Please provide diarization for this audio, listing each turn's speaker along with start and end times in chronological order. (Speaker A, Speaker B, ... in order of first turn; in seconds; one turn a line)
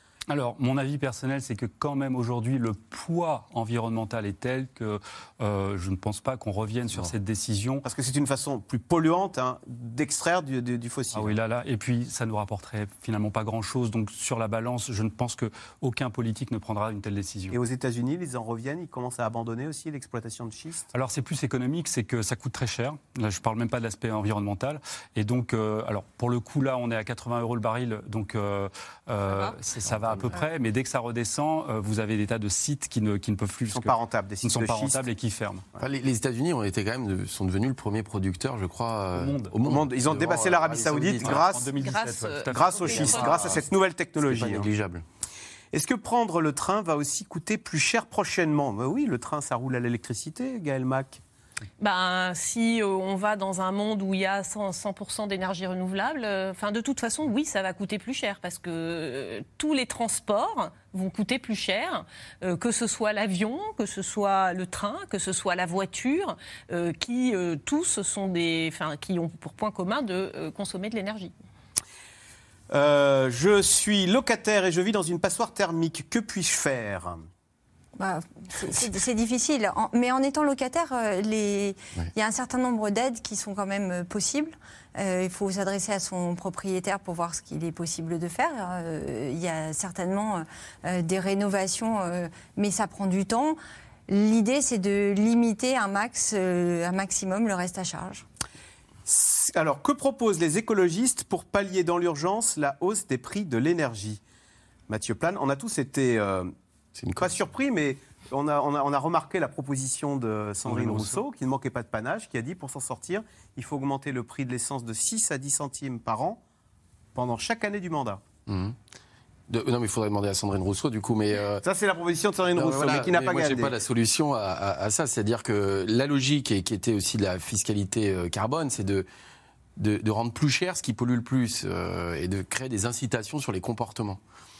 Speaker A: 0.3-7.8
Speaker B: 7.8-11.3
Speaker A: 11.1-17.6
Speaker B: 17.5-20.9
Speaker A: 20.9-35.6
Speaker C: 29.2-29.6
Speaker D: 29.8-30.3
Speaker B: 33.7-35.0
Speaker D: 35.8-41.5
Speaker A: 39.1-39.5
Speaker B: 39.6-41.7
Speaker A: 41.2-43.6
Speaker C: 41.8-43.5
Speaker B: 42.5-44.7
Speaker D: 42.9-43.6
Speaker D: 44.2-45.0
Speaker B: 45.7-51.2
Speaker C: 51.8-71.3
Speaker B: 72.7-77.2
Speaker E: 78.0-93.6
Speaker E: 94.1-98.2
Speaker B: 99.0-104.2
Speaker B: 104.9-106.5
Speaker D: 107.0-107.3
Speaker B: 107.2-116.4
Speaker D: 110.7-111.2
Speaker B: 117.1-118.2
Speaker D: 118.5-118.8
Speaker D: 119.5-121.6
Speaker B: 121.6-123.7
Speaker D: 122.5-129.1
Speaker D: 129.8-134.2